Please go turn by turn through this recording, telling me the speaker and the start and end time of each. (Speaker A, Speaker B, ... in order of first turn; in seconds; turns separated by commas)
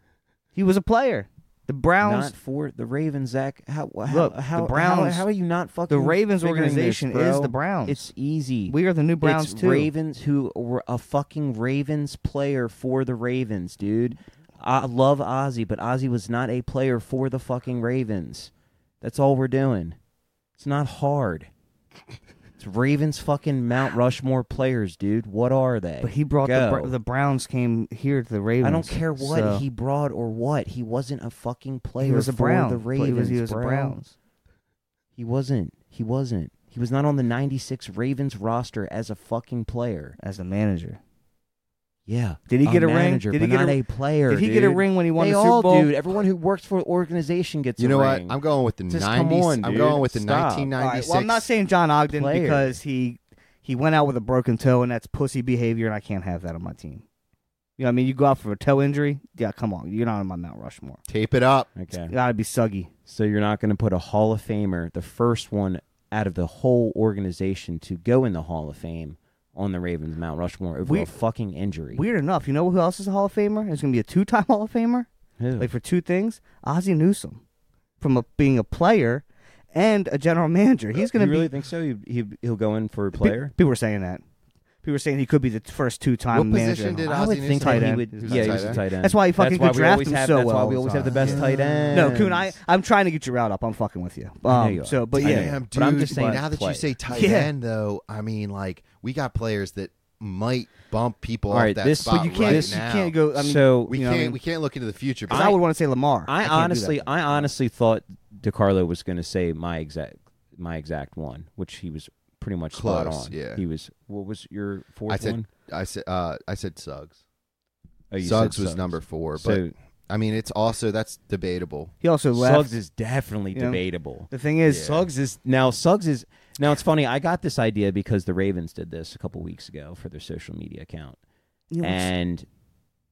Speaker A: 0.5-2.3, Speaker B: 2.0-20.0, Speaker A: 4.1-5.2, Speaker A: 5.9-8.0, Speaker A: 8.7-9.9, Speaker B: 20.6-21.5, Speaker B: 22.6-26.9, Speaker A: 26.0-29.6, Speaker B: 28.6-34.0, Speaker A: 32.0-34.1, Speaker B: 35.1-40.2, Speaker A: 40.2-41.0, Speaker B: 42.1-48.4, Speaker A: 42.5-45.9, Speaker C: 47.8-51.5, Speaker B: 48.9-50.7, Speaker A: 50.8-57.0, Speaker B: 52.1-52.8, Speaker A: 57.8-61.0, Speaker C: 61.1-61.7, Speaker B: 61.8-62.1, Speaker A: 62.1-62.9, Speaker B: 63.1-72.0, Speaker A: 71.9-75.1, Speaker B: 75.4-75.7, Speaker A: 75.6-77.4, Speaker A: 78.0-81.5, Speaker B: 81.1-83.5, Speaker A: 83.1-84.2, Speaker A: 84.8-95.6, Speaker C: 86.3-88.8, Speaker B: 87.0-92.5, Speaker C: 91.0-92.2, Speaker B: 94.4-96.9, Speaker C: 95.1-103.2, Speaker A: 97.1-97.5, Speaker B: 101.5-102.8, Speaker A: 102.0-104.4, Speaker B: 103.3-103.9, Speaker C: 103.9-105.5, Speaker A: 105.3-107.5, Speaker B: 105.3-105.6, Speaker B: 106.2-115.5, Speaker C: 112.7-113.6, Speaker C: 115.1-117.2, Speaker B: 118.1-119.7, Speaker C: 118.2-121.9, Speaker A: 122.0-122.7, Speaker B: 122.3-124.3, Speaker A: 123.5-125.1, Speaker C: 124.7-125.1, Speaker B: 124.9-131.2, Speaker A: 131.7-132.1, Speaker B: 131.8-132.5